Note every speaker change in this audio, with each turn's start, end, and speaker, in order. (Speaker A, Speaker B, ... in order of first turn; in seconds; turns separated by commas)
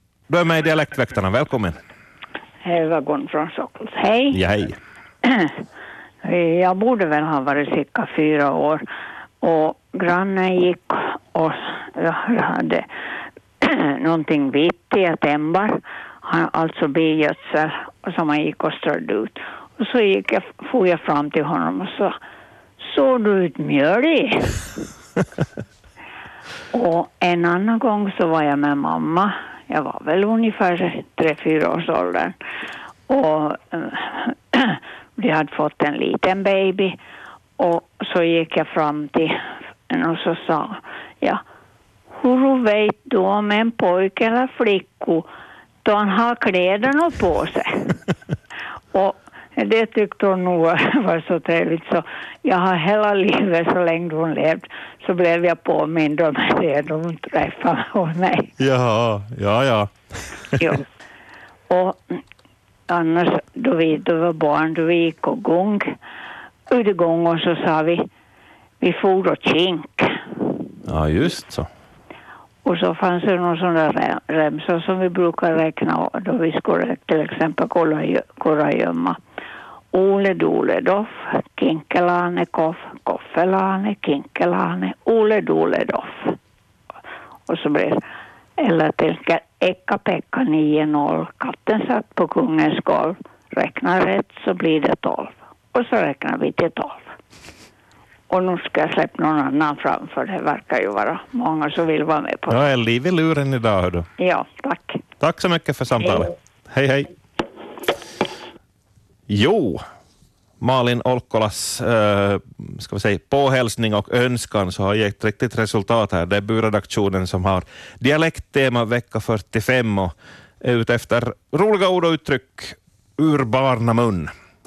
Speaker A: 0.3-1.8, Speaker B: 2.6-4.4, Speaker A: 4.3-4.8, Speaker B: 5.2-5.5, Speaker B: 6.2-8.8, Speaker B: 9.4-12.9, Speaker B: 13.6-22.2, Speaker B: 22.8-24.7, Speaker B: 26.7-32.4, Speaker B: 33.1-37.0, Speaker B: 37.6-41.4, Speaker B: 42.1-45.3, Speaker B: 45.8-48.0, Speaker B: 48.9-58.5, Speaker A: 58.6-59.9, Speaker B: 61.7-62.2, Speaker B: 62.9-66.0, Speaker B: 66.7-68.1, Speaker B: 68.8-70.2, Speaker A: 70.8-71.7, Speaker B: 72.6-79.2, Speaker B: 79.9-86.4, Speaker B: 87.5-88.0, Speaker B: 88.6-97.1, Speaker B: 98.3-102.6, Speaker A: 102.5-104.1, Speaker B: 104.2-105.0, Speaker A: 105.2-107.1, Speaker A: 109.3-109.8, Speaker A: 110.6-124.3